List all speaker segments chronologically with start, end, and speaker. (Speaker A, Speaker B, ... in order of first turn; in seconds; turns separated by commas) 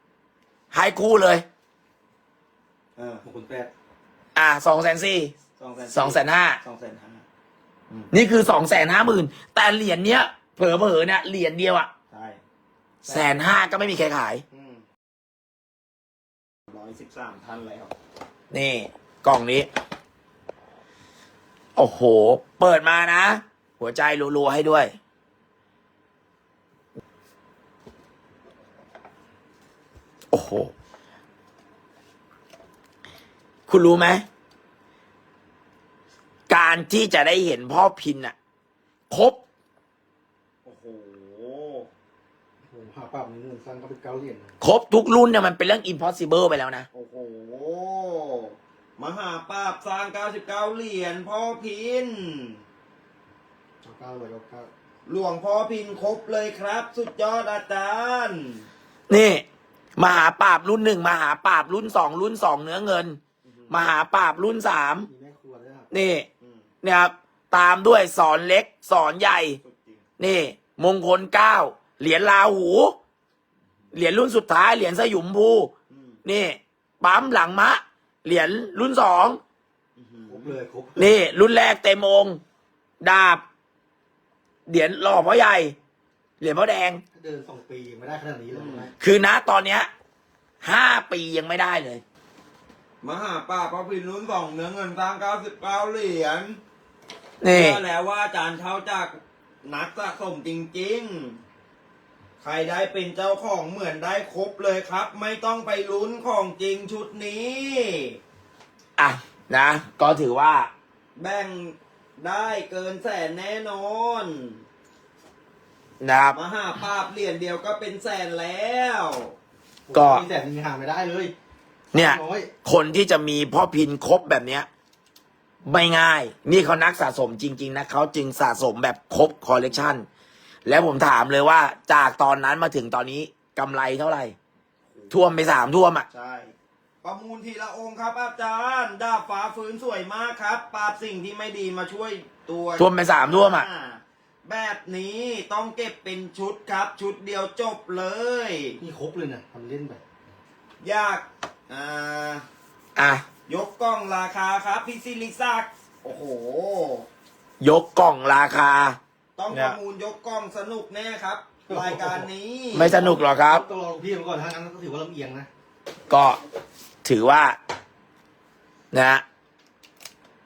Speaker A: 0.7-1.4, Speaker B: 3.0-3.2, Speaker C: 3.2-3.7, Speaker A: 4.3-5.3, Speaker B: 5.6-7.2, Speaker A: 5.9-6.6, Speaker A: 8.1-11.9, Speaker B: 12.1-12.4, Speaker A: 13.1-14.4, Speaker B: 14.5-14.8, Speaker B: 16.7-17.9, Speaker A: 18.5-19.7, Speaker A: 21.8-24.9, Speaker A: 30.3-30.7, Speaker A: 33.7-34.2, Speaker A: 36.5-38.4, Speaker A: 39.1-39.4, Speaker B: 40.6-41.9, Speaker C: 42.7-44.5, Speaker A: 44.6-46.9, Speaker B: 46.9-52.6, Speaker C: 53.8-54.7, Speaker B: 55.1-58.7, Speaker A: 59.1-59.5, Speaker A: 60.0-65.1, Speaker B: 63.5-63.8, Speaker C: 65.1-65.9, Speaker A: 65.9-66.3, Speaker B: 66.4-66.7, Speaker A: 66.8-69.6, Speaker B: 69.6-70.0, Speaker A: 70.2-73.0, Speaker A: 73.9-75.7, Speaker B: 75.9-76.2, Speaker A: 76.2-79.4, Speaker B: 80.0-80.6, Speaker C: 80.3-81.2, Speaker A: 81.0-82.4, Speaker A: 83.0-83.4, Speaker A: 84.7-85.8, Speaker A: 86.4-87.0, Speaker C: 87.1-88.9, Speaker B: 88.5-88.9, Speaker A: 89.0-89.9, Speaker A: 90.6-92.0, Speaker B: 93.0-96.6, Speaker A: 97.4-97.8, Speaker B: 97.5-101.4, Speaker B: 102.4-108.2, Speaker A: 109.0-110.7, Speaker B: 111.2-114.6, Speaker A: 116.0-116.4, Speaker B: 116.3-119.3, Speaker C: 119.9-121.3, Speaker A: 119.9-120.3, Speaker C: 121.9-122.5, Speaker A: 121.9-124.7, Speaker A: 125.7-130.1, Speaker A: 130.7-134.3, Speaker B: 134.9-135.3, Speaker A: 135.1-136.1, Speaker B: 136.1-136.5, Speaker B: 137.0-148.8, Speaker A: 142.8-143.7, Speaker C: 148.8-150.0, Speaker B: 150.8-152.4, Speaker A: 153.0-153.2, Speaker B: 153.5-157.1, Speaker A: 157.6-159.0, Speaker B: 159.4-163.0, Speaker A: 159.5-159.8, Speaker C: 161.7-162.3, Speaker A: 162.7-163.7, Speaker C: 162.9-165.5, Speaker A: 166.1-166.4, Speaker A: 167.0-167.6, Speaker A: 168.9-169.2